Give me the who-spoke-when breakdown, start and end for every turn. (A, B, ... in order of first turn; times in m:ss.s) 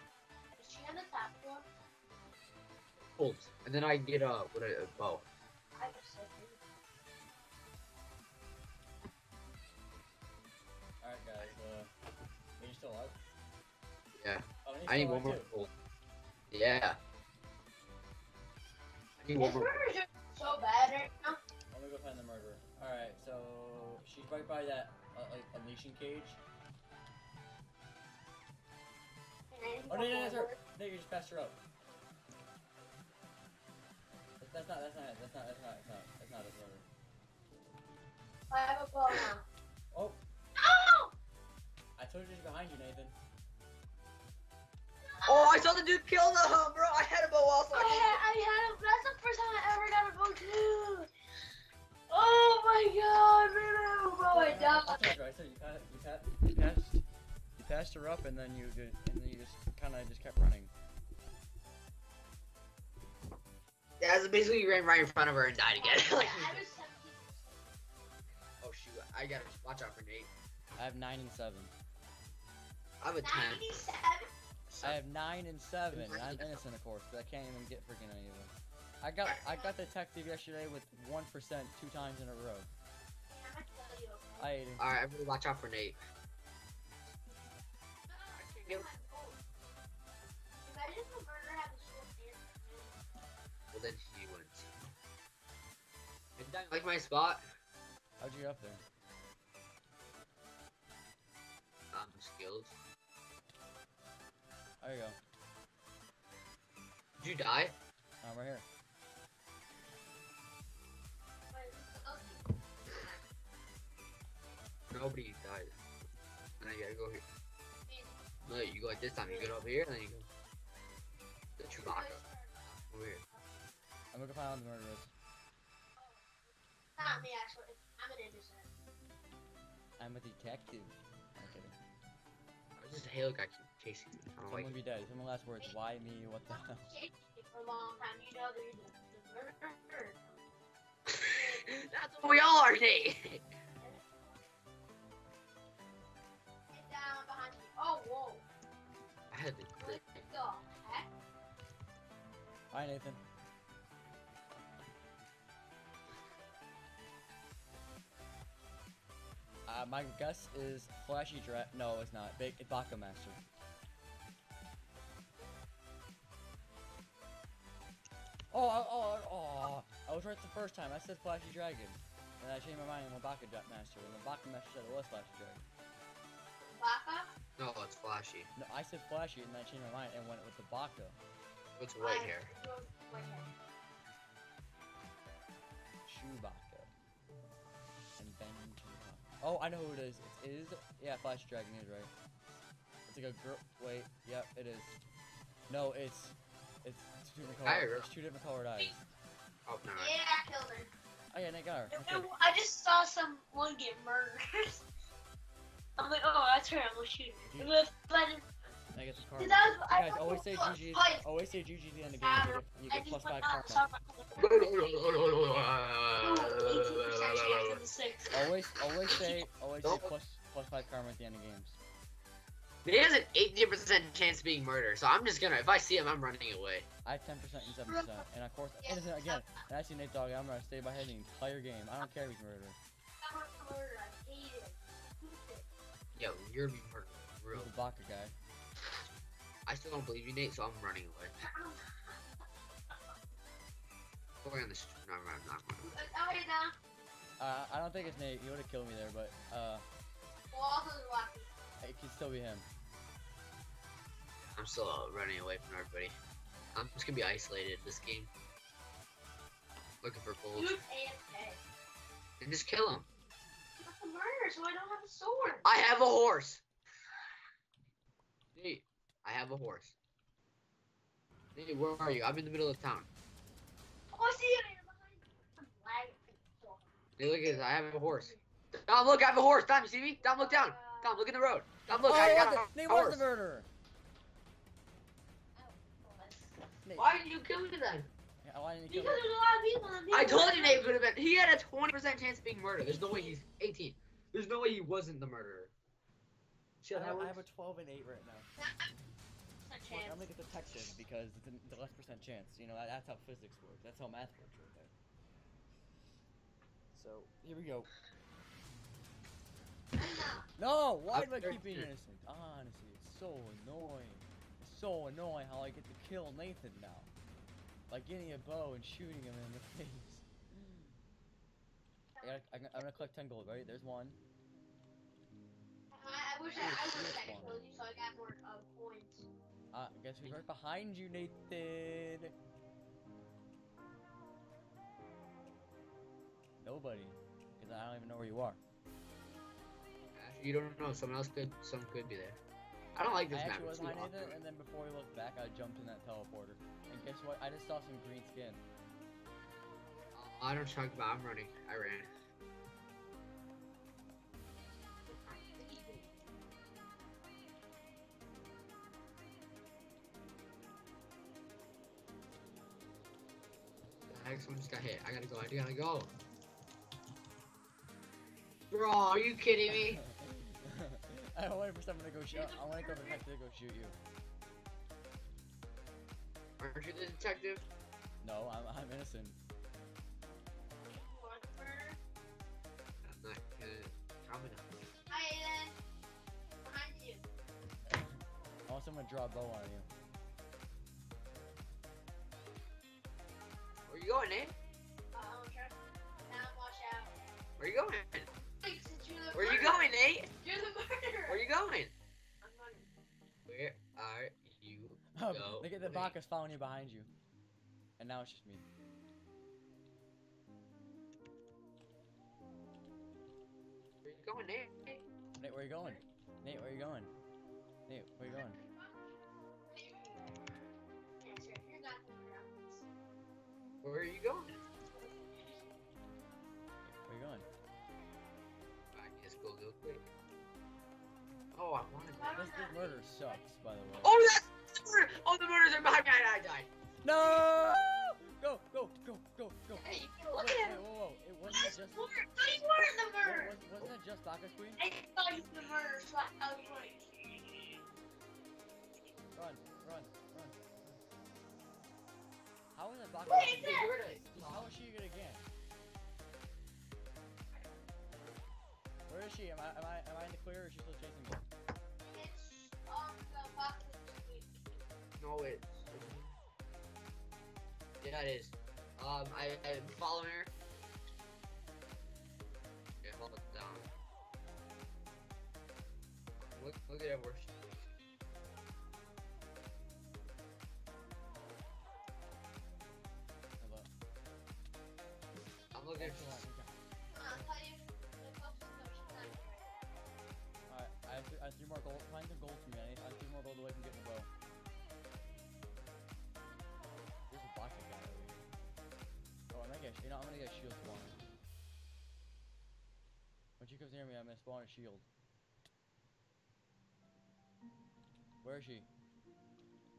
0:00.6-0:01.7 A
0:03.2-0:05.2 B
0:05.8-0:06.6 A
0:11.0-0:11.9 C
0:12.6-0:13.2 C
0:14.2-0:15.7 B
0:14.6-0:15.4 C
0:16.5-0:17.0 B
0:19.2-0:19.8 B
0:19.4-0:21.4 A
0:21.7-0:26.4 C
0:29.5-0:30.6 A
0:29.9-0:31.6 C
0:34.4-0:36.8 C
0:38.5-0:39.4 A
0:39.9-0:40.2 C
0:40.6-0:41.1 A
0:42.0-0:43.1 C
0:45.1-0:45.6 A
0:45.2-0:48.2 B
0:47.7-0:51.1 A
0:52.1-0:55.1 A
0:54.3-0:57.0 C
0:57.6-1:00.7 C
1:04.0-1:06.6 B
1:05.7-1:07.8 A
1:08.6-1:10.3 B
1:10.8-1:11.7 C
1:13.0-1:13.7 B
1:13.2-1:14.3 A
1:14.7-1:15.0 B
1:14.8-1:22.7 C
1:15.9-1:16.6 B
1:19.2-1:19.7 A
1:23.3-1:24.5 A
1:24.4-1:24.8 C
1:24.8-1:26.0 B
1:28.1-1:29.4 A
1:28.3-1:28.9 B
1:30.6-1:33.0 A
1:33.7-1:34.7 B
1:36.4-1:37.4 B
1:38.2-1:38.8 C
1:41.9-1:42.7 B
1:44.8-1:45.2 C
1:47.2-1:47.7 B
1:48.2-1:48.6 C
1:51.5-1:53.2 A
1:54.9-1:55.8 B
1:56.6-1:57.2 B
1:57.9-1:58.1 A
1:58.4-2:00.3 B
1:58.9-1:59.5 A
2:01.6-2:03.2 B
2:01.7-2:02.6 A
2:04.1-2:05.1 C
2:06.0-2:06.2 A
2:07.0-2:08.7 A
2:10.0-2:11.7 C
2:12.8-2:14.7 B
2:14.5-2:16.8 C
2:16.5-2:20.4 A
2:21.1-2:23.4 B
2:21.2-2:21.7 A
2:23.8-2:24.4 A
2:26.7-2:28.4 A
2:29.3-2:30.2 B
2:29.8-2:31.1 A
2:32.7-2:33.2 C
2:39.7-2:43.4 C
2:48.5-2:55.6 C
2:56.6-2:57.3 A
2:57.6-2:58.5 B
2:58.6-3:01.2 C
3:01.8-3:02.5 B
3:02.0-3:03.5 A
3:06.0-3:06.9 C
3:08.2-3:12.1 C
3:13.1-3:15.0 C
3:15.7-3:19.0 C
3:17.4-3:18.1 B
3:19.7-3:20.1 B
3:20.0-3:20.9 A
3:21.3-3:22.3 C
3:21.9-3:24.8 A
3:26.0-3:28.5 A
3:27.4-3:27.7 C
3:28.9-3:33.8 C
3:29.4-3:31.2 A
3:32.2-3:35.3 A
3:34.4-3:37.8 B
3:36.2-3:38.4 A
3:38.3-3:41.8 C
3:39.1-3:40.1 B
3:42.8-3:46.9 B
3:47.0-3:52.8 C
3:47.9-3:48.2 A
3:48.8-3:49.4 A
3:53.2-3:55.6 A
3:56.1-3:57.7 B
3:57.5-3:58.3 C
3:59.6-4:01.3 B
4:01.4-4:02.2 A
4:04.4-4:05.9 B
4:05.8-4:06.7 A
4:07.4-4:09.8 C
4:10.5-4:11.5 A
4:11.8-4:12.6 C
4:14.4-4:16.2 B
4:16.7-4:18.3 B
4:20.0-4:20.7 B
4:20.5-4:21.6 A
4:22.4-4:23.1 B
4:23.8-4:25.7 A
4:25.6-4:26.6 B
4:28.6-4:29.9 B
4:31.6-4:33.1 B
4:34.1-4:36.9 A
4:37.2-4:43.2 B
4:40.2-4:41.2 A
4:41.9-4:43.7 C
4:45.6-4:46.6 A
4:46.8-4:47.1 C
4:47.0-4:48.1 B
4:48.4-4:49.3 C
4:48.9-4:50.9 A
4:50.1-4:55.7 B
4:53.0-4:53.4 A
4:56.8-4:57.4 B
4:56.9-4:58.5 C
4:59.6-5:00.3 A
4:59.9-5:04.9 C
5:06.9-5:07.9 C
5:10.0-5:10.4 A
5:10.6-5:17.1 C
5:11.1-5:11.9 B
5:17.9-5:21.0 C
5:22.1-5:23.0 A
5:22.2-5:24.2 C
5:25.9-5:29.3 A
5:26.5-5:27.6 C
5:29.7-5:32.3 C
5:36.6-5:38.6 C
5:40.2-5:42.4 B
5:42.9-5:44.4 B
5:43.3-5:48.6 C
5:50.1-5:52.1 B
5:55.1-5:56.2 A
6:04.1-6:06.1 B
6:08.7-6:10.0 B
6:09.8-6:14.0 C
6:12.3-6:13.2 A
6:16.6-6:17.6 B
6:18.2-6:19.4 C
6:20.8-6:22.0 A
6:23.0-6:24.6 B
6:25.1-6:25.8 A
6:26.6-6:27.2 A
6:27.9-6:29.8 C
6:33.9-6:34.5 B
6:35.1-6:37.1 A
6:37.6-6:38.3 B
6:38.6-6:39.8 A
6:39.3-6:40.3 B
6:40.4-6:41.4 A
6:41.3-6:41.9 B
6:42.4-6:42.9 A
6:43.5-6:46.1 B
6:45.1-6:47.1 C
6:48.0-6:48.6 C
6:54.0-6:54.8 B
6:55.4-6:57.1 C
6:57.9-6:58.6 C
6:58.5-6:59.0 A
6:59.7-7:00.4 A
7:01.2-7:02.8 A
7:03.8-7:04.6 B
7:04.9-7:05.6 A
7:06.9-7:07.4 C
7:08.9-7:10.0 B
7:11.5-7:12.4 B
7:12.1-7:13.0 A
7:12.3-7:14.1 C
7:14.0-7:16.7 B
7:17.0-7:22.1 C
7:19.8-7:20.8 A
7:21.5-7:23.5 A
7:23.2-7:24.8 C
7:24.8-7:27.4 A
7:29.3-7:31.0 C
7:32.8-7:35.5 C
7:33.2-7:34.7 B
7:33.3-7:33.9 A
7:39.1-7:41.4 C
7:42.0-7:44.8 A
7:45.2-7:46.3 B
7:48.0-7:50.5 B
7:53.0-7:53.9 B
7:56.5-7:57.9 B
8:03.6-8:03.9 C
8:05.7-8:06.4 B
8:06.0-8:06.8 C
8:07.1-8:09.8 A
8:10.7-8:14.3 C
8:17.3-8:18.4 C
8:19.5-8:21.2 C
8:23.6-8:25.0 C
8:28.4-8:28.9 C